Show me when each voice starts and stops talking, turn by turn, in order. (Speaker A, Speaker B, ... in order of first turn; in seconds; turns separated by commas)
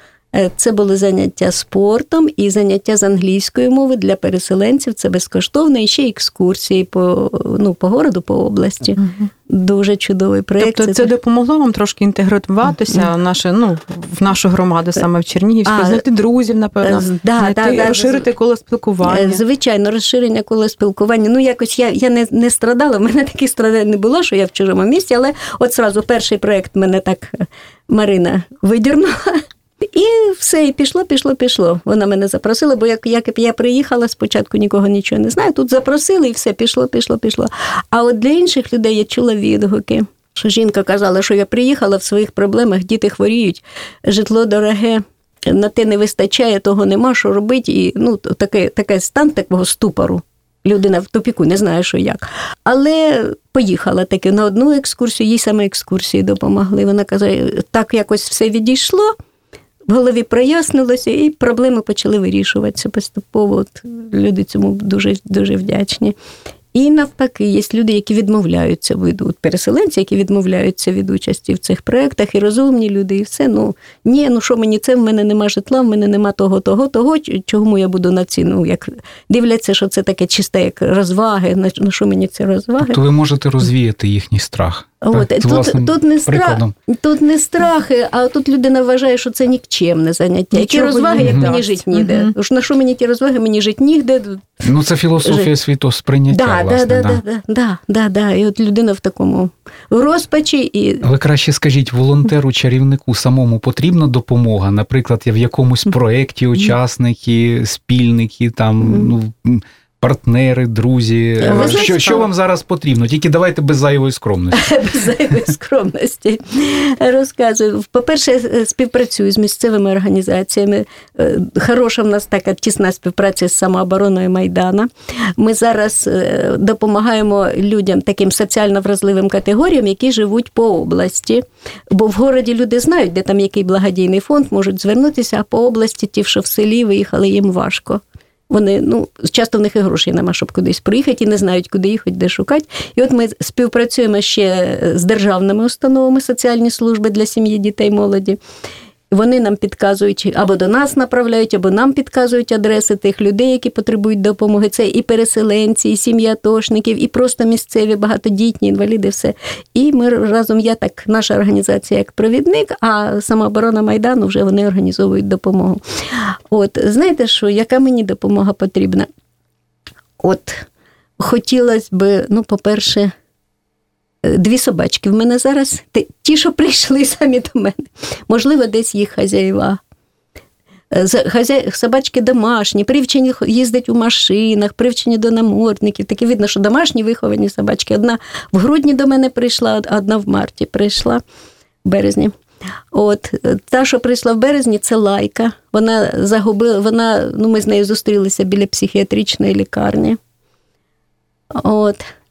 Speaker A: 0.3-11.1, Speaker B: 9.0-9.2, Speaker B: 10.6-19.4, Speaker A: 15.7-16.0, Speaker A: 16.8-18.2, Speaker A: 19.0-59.1, Speaker A: 59.9-66.1, Speaker A: 66.7-83.0, Speaker C: 82.8-86.7, Speaker A: 85.0-94.6, Speaker B: 90.5-92.3, Speaker C: 91.2-91.5, Speaker C: 94.6-97.2, Speaker A: 95.2-95.5, Speaker A: 96.3-101.1, Speaker C: 101.0-114.7, Speaker A: 108.8-109.1, Speaker A: 111.4-112.3, Speaker B: 111.6-111.9, Speaker A: 114.5-148.4, Speaker A: 149.1-169.1, Speaker A: 170.2-170.7, Speaker A: 171.2-173.1, Speaker A: 174.2-179.8, Speaker A: 180.9-191.2, Speaker A: 191.8-192.3, Speaker A: 192.9-200.2, Speaker A: 201.5-202.1